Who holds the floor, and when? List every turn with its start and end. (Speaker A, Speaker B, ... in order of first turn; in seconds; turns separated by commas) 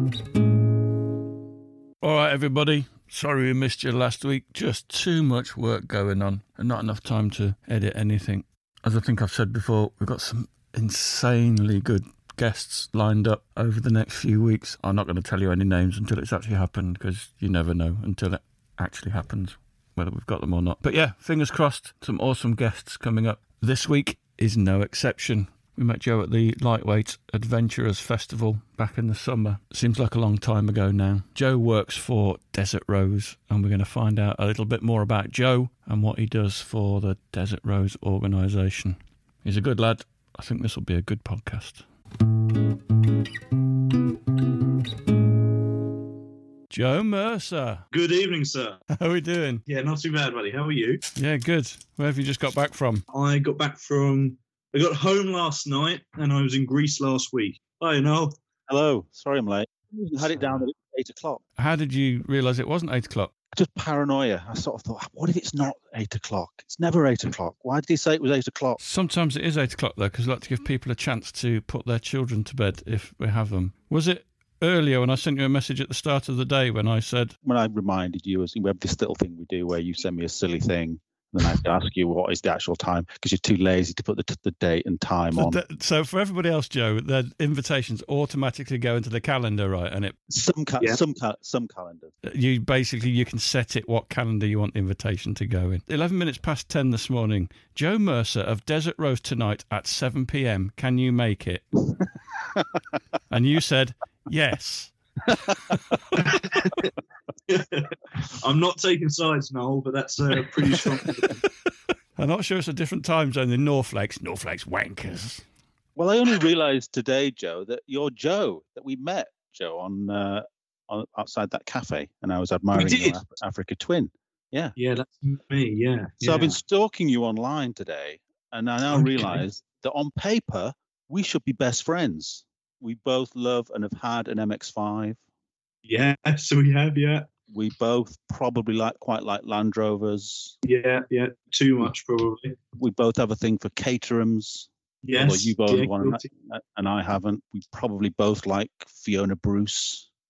Speaker A: 2.0-41.9, Speaker A: 46.7-47.9, Speaker B: 47.9-48.8, Speaker A: 48.9-49.6, Speaker B: 49.7-51.0, Speaker A: 51.2-53.0, Speaker B: 53.1-58.4, Speaker C: 58.7-61.4, Speaker A: 61.6-63.3, Speaker C: 63.5-68.8, Speaker A: 68.8-77.4, Speaker C: 77.4-85.6, Speaker A: 85.3-90.2, Speaker C: 90.3-92.1, Speaker A: 92.2-101.7, Speaker A: 103.3-105.0, Speaker C: 105.3-105.8, Speaker B: 106.6-106.9, Speaker B: 107.5-111.4, Speaker A: 112.2-115.5, Speaker C: 116.0-124.7, Speaker B: 122.8-123.2, Speaker B: 124.8-126.6, Speaker C: 126.2-135.2, Speaker B: 128.9-129.4, Speaker B: 135.8-137.3, Speaker C: 137.5-140.6, Speaker B: 140.6-142.6, Speaker C: 142.8-150.1, Speaker B: 145.0-146.2